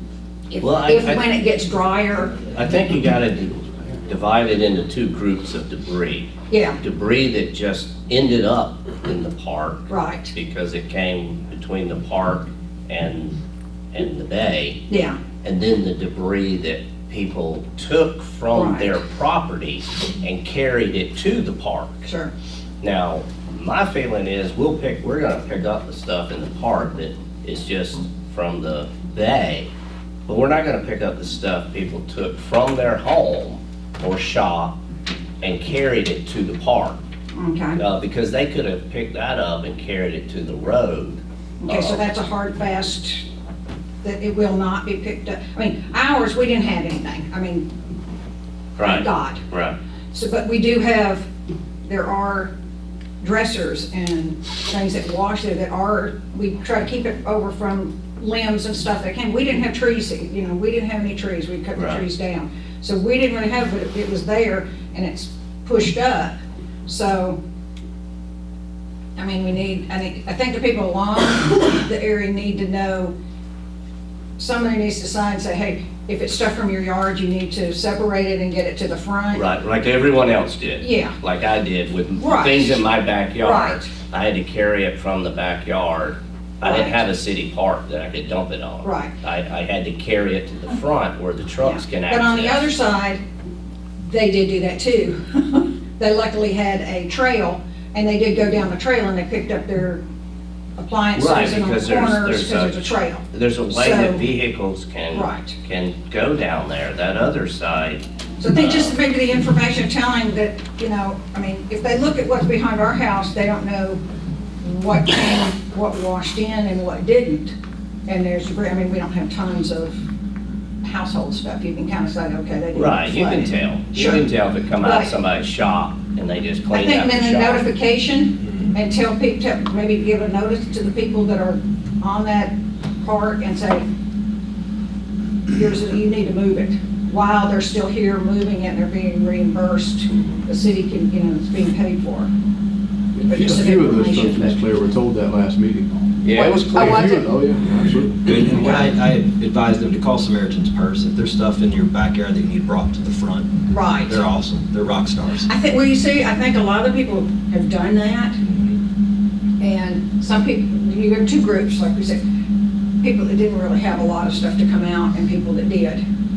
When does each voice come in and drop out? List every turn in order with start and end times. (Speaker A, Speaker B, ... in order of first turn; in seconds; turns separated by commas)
Speaker A: 0.5-2.4, Speaker B: 0.6-1.2, Speaker B: 2.5-13.4, Speaker A: 6.5-6.8, Speaker A: 9.9-10.3, Speaker B: 13.9-14.8, Speaker A: 14.9-15.2, Speaker B: 15.4-22.1, Speaker A: 18.5-19.0, Speaker A: 22.0-22.3, Speaker B: 22.8-29.7, Speaker B: 30.3-34.7, Speaker B: 35.4-37.0, Speaker A: 37.3-37.8, Speaker B: 37.8-42.1, Speaker A: 41.6-43.2, Speaker A: 44.0-47.7, Speaker B: 48.8-49.7, Speaker A: 48.8-49.4, Speaker A: 50.1-51.3, Speaker A: 51.8-52.5, Speaker A: 53.2-66.3, Speaker B: 61.7-62.0, Speaker A: 66.8-67.4, Speaker A: 69.2-73.1, Speaker A: 74.4-79.4, Speaker B: 79.3-92.7, Speaker A: 80.8-81.1, Speaker A: 82.2-82.8, Speaker A: 83.4-83.9, Speaker A: 86.6-87.0, Speaker A: 88.8-89.1, Speaker A: 91.6-93.2, Speaker A: 94.0-100.0, Speaker A: 100.8-104.2, Speaker B: 101.2-108.0, Speaker A: 105.1-105.6, Speaker A: 108.4-114.0, Speaker B: 108.5-108.9, Speaker A: 114.6-117.5, Speaker A: 118.1-120.0, Speaker A: 120.8-124.2, Speaker B: 122.7-127.7, Speaker A: 124.8-125.1, Speaker A: 126.7-133.8, Speaker A: 135.5-142.3, Speaker C: 143.1-148.9, Speaker A: 143.3-144.6, Speaker B: 146.2-146.8, Speaker A: 146.4-147.3, Speaker D: 148.2-155.5, Speaker A: 148.6-148.8, Speaker A: 153.7-154.2, Speaker A: 155.4-158.4, Speaker D: 158.4-158.8, Speaker A: 159.6-162.2, Speaker A: 163.0-166.0